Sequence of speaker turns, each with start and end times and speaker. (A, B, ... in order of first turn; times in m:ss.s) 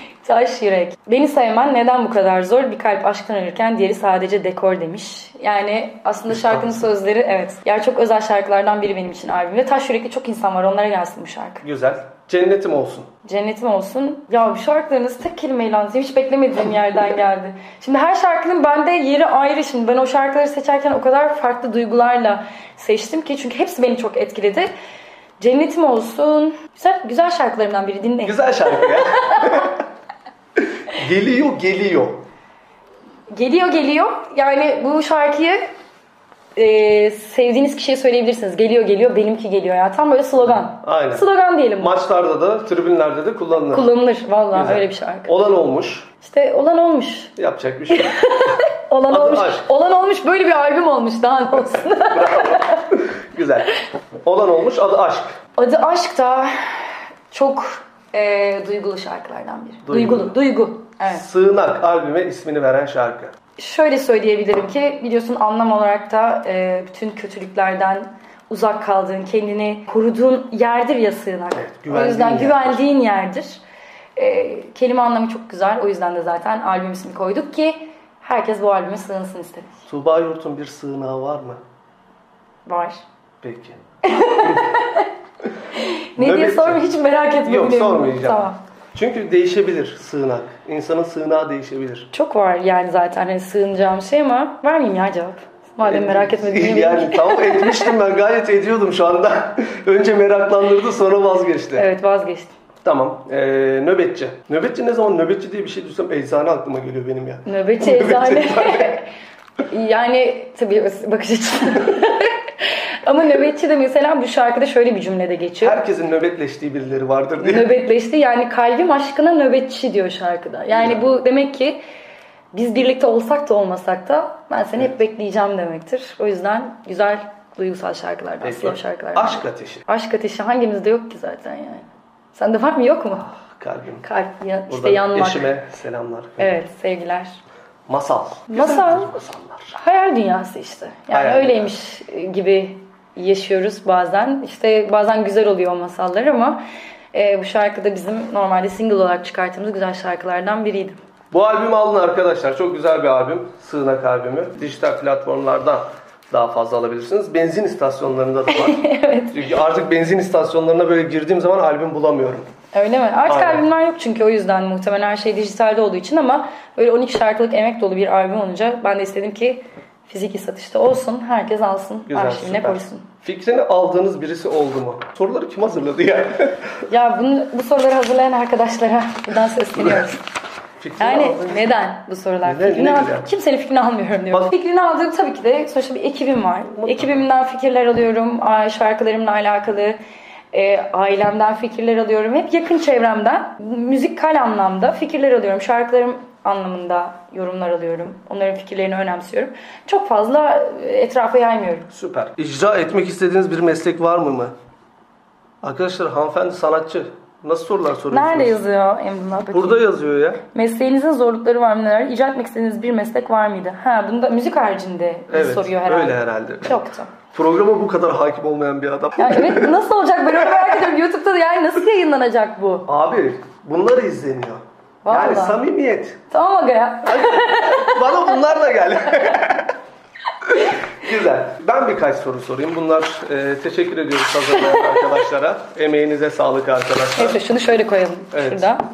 0:00.2-0:11.6 A
0:06.3-0:06.9 B
0:11.6-0:13.1 B
0:13.2-0:24.7 A
0:25.4-0:29.7 A
0:28.2-0:29.8 B
0:30.6-0:32.2 B
0:33.3-0:35.6 A
0:36.6-0:42.0 A
0:40.5-0:41.3 B
0:41.8-0:43.9 B
0:43.7-0:45.3 A
0:44.5-0:46.1 B
0:46.2-0:47.3 A
0:47.4-0:48.6 B
0:47.9-0:52.9 A
0:49.1-0:49.7 B
0:52.1-0:53.7 B
0:54.2-0:55.4 B
0:55.6-0:56.5 A
0:57.3-1:01.2 A
0:59.9-1:00.4 B
1:01.1-1:03.3 B
1:03.6-1:13.6 A
1:11.6-1:12.8 B
1:14.2-1:19.8 A
1:19.9-1:21.6 B
1:22.7-1:23.0 A
1:23.4-1:23.8 B
1:24.0-1:25.1 A
1:24.4-1:24.6 B
1:25.7-1:28.6 A
1:26.2-1:26.8 B
1:27.4-1:32.1 B
1:32.1-1:37.9 A
1:35.8-1:41.9 B
1:41.8-1:42.5 A
1:42.8-1:49.0 B
1:47.5-1:49.1 A
1:49.7-1:55.8 A
1:55.6-1:57.7 B
1:57.4-2:01.8 A
2:00.7-2:01.0 B
2:02.5-2:13.3 A
2:08.4-2:09.8 B
2:13.5-2:14.1 B
2:14.0-2:15.5 A
2:14.7-2:16.6 B
2:16.4-2:17.4 A
2:17.9-2:19.7 B
2:18.5-2:19.2 A
2:19.7-2:26.6 A
2:21.1-2:21.7 B
2:27.1-2:31.0 A
2:31.3-2:42.5 B
2:38.5-2:39.4 A
2:42.7-2:53.1 A
2:43.3-2:43.6 B
2:52.1-2:56.8 B
2:56.9-3:00.2 A
2:59.8-3:00.0 B
3:00.8-3:01.7 B
3:01.0-3:10.0 A
3:02.4-3:03.3 B
3:06.8-3:07.2 B
3:10.5-3:21.9 A
3:21.9-3:24.5 B
3:25.6-3:28.6 B
3:28.1-3:29.9 A
3:29.5-3:30.4 B
3:30.4-3:37.1 A
3:35.3-3:36.8 B
3:37.3-3:39.8 B
3:39.2-3:42.9 A
3:42.9-3:46.2 B
3:45.0-3:45.6 A
3:46.3-3:49.4 A
3:47.0-3:49.7 B
3:50.5-3:57.4 B
3:54.5-3:55.2 A
3:57.2-3:58.8 A
3:58.3-3:58.7 B